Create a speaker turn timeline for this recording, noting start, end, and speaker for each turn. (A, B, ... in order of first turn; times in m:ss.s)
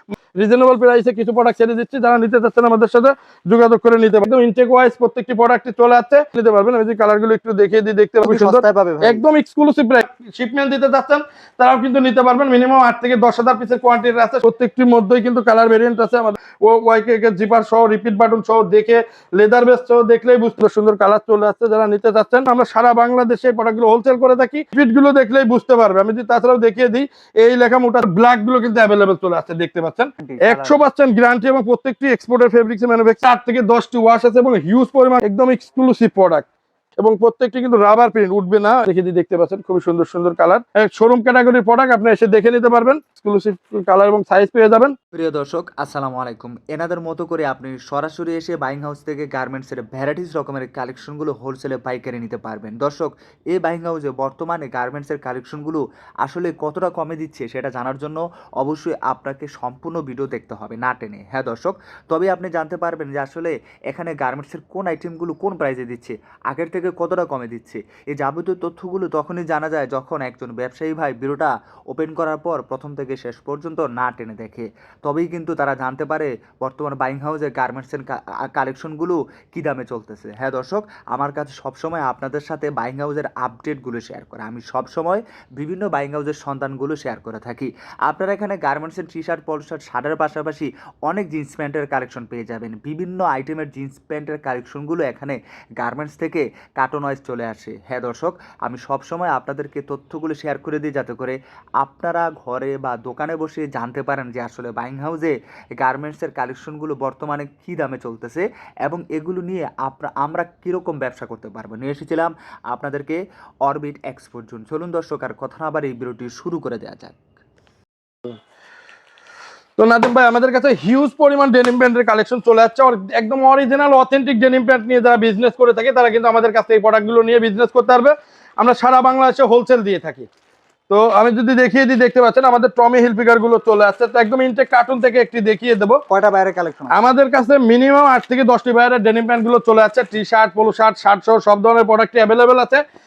0:00.4-0:36.5 A
0:08.2-0:09.2 B
0:30.2-0:30.8 B
0:37.0-0:44.9 A
0:45.1-1:57.2 C
1:59.8-2:10.3 A
2:10.9-2:16.0 A
2:16.1-2:17.0 B
2:16.9-2:22.8 A